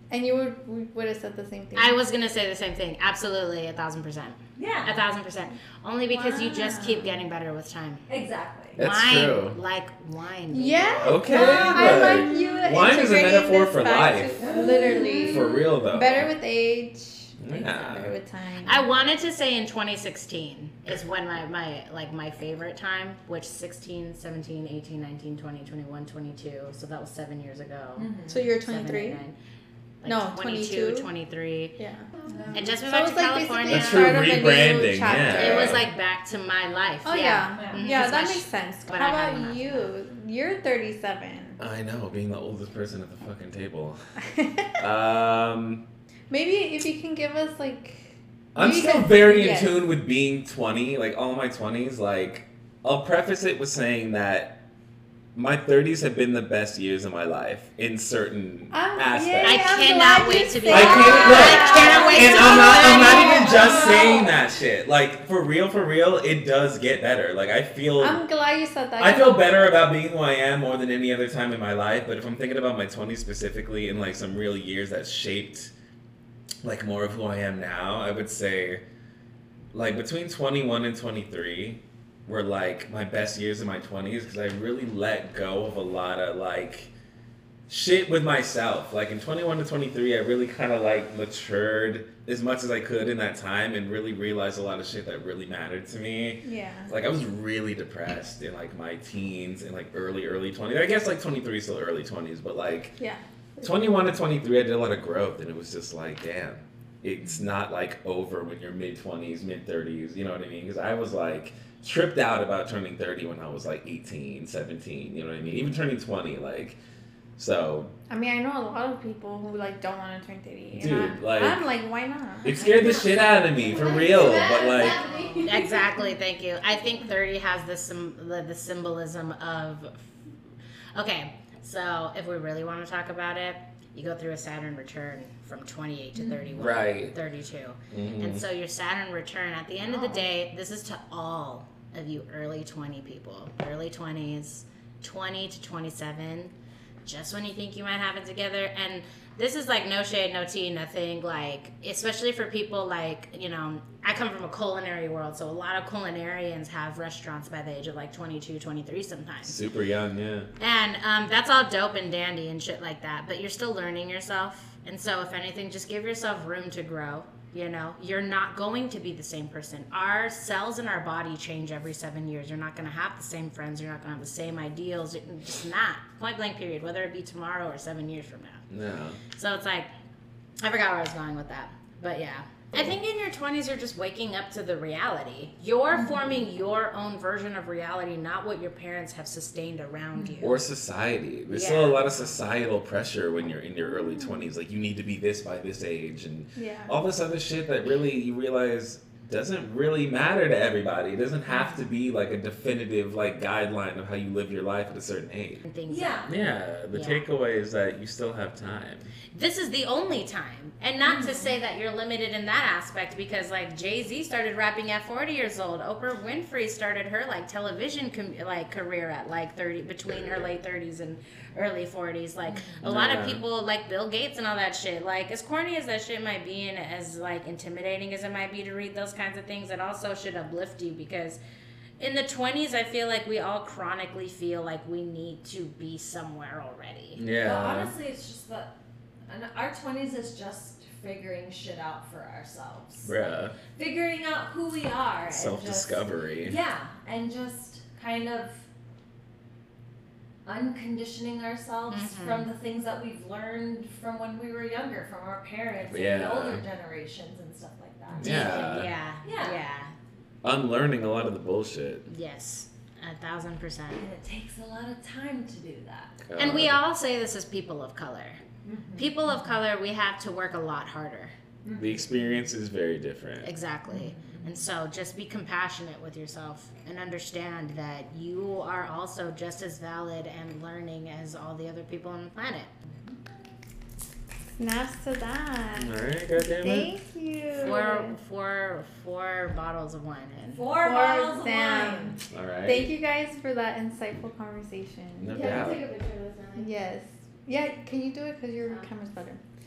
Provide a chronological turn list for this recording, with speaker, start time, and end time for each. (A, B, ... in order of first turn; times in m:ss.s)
0:00.1-0:02.0 A
0:01.7-0:08.0 B
0:04.6-0:05.0 C
0:06.1-0:07.3 A
0:08.1-0:08.8 C
0:08.8-0:09.6 D
0:08.8-0:11.0 B
0:10.5-0:18.8 A
0:11.0-0:14.4 D
0:11.3-0:12.7 C
0:14.4-0:15.6 C
0:15.2-0:16.3 D
0:17.4-0:18.1 D
0:18.6-0:29.4 B
0:28.0-0:28.5 C
0:28.3-0:29.2 A
0:30.0-0:31.8 B
0:30.0-0:31.1 A
0:31.8-0:35.9 A
0:32.3-0:32.7 C
0:32.5-0:34.2 B
0:33.7-0:35.9 D
0:35.3-0:39.9 B
0:37.0-0:41.6 A
0:37.6-0:38.0 C
0:41.6-0:44.0 D
0:44.2-0:44.7 A
0:44.8-0:45.8 D
0:46.3-0:49.9 A
0:48.6-0:54.6 D
0:55.4-0:59.6 D
0:58.7-1:03.7 A
0:59.4-1:03.9 B
1:00.7-1:08.2 D
1:01.8-1:02.6 C
1:03.3-1:04.3 C
1:08.0-1:09.7 A
1:09.0-1:15.7 D
1:16.6-1:18.8 D
1:19.7-1:26.9 D
1:27.7-1:43.0 D
1:36.4-1:36.9 A
1:43.0-1:43.9 A
1:43.6-1:56.8 D
1:57.4-1:57.9 D
1:58.1-2:02.7 A
2:00.7-2:01.6 D
2:02.4-2:05.0 D
2:02.6-2:03.3 B
2:03.5-2:05.7 E
2:04.8-2:05.4 C
2:05.4-2:10.1 B
2:11.0-2:26.5 B
2:16.6-2:17.2 D
2:17.9-2:18.4 D
2:19.8-2:20.3 A
2:27.0-2:39.6 B
2:39.4-2:40.5 D
2:40.6-2:58.6 B
2:58.7-2:59.2 D
2:59.4-2:59.9 B
3:00.6-3:10.6 B
3:05.9-3:06.3 C
3:10.3-3:25.6 D
3:11.5-3:12.4 B
3:13.8-3:14.5 A
3:16.6-3:17.0 A
3:21.5-3:21.9 C
3:25.6-3:26.3 B
3:25.9-3:26.3 C
3:26.3-3:29.1 D
3:26.9-3:27.2 B
3:29.3-3:51.4 B
3:31.0-3:31.5 C
3:40.1-3:40.4 D
3:42.5-3:42.8 C
3:42.8-3:43.4 D
3:52.0-3:57.2 B
3:57.2-3:57.9 D
3:57.4-3:58.7 C
3:59.3-4:03.1 C
4:03.0-4:03.6 D
4:03.7-4:08.6 C
4:05.3-4:06.6 D
4:10.4-4:18.7 C
4:11.9-4:12.5 B
4:15.9-4:16.6 D
4:18.2-4:18.9 D
4:18.2-4:19.9 B
4:19.2-4:19.6 C
4:20.4-4:22.0 D
4:22.1-4:24.0 B
4:24.0-4:26.2 C
4:26.2-4:26.8 D
4:26.4-4:28.4 B
4:28.6-4:29.6 C
4:29.0-4:31.4 B
4:31.6-4:32.5 C
4:31.8-4:33.5 D
4:33.4-4:42.7 B
4:33.9-4:34.6 C
4:42.9-4:43.2 C
4:44.5-4:48.2 A
4:45.8-4:46.9 D
4:47.5-4:50.6 B
4:50.5-4:52.2 C
4:50.8-4:55.6 A
4:52.3-4:52.9 D
4:55.2-4:55.9 D
4:55.3-4:56.7 E
4:56.6-4:59.4 A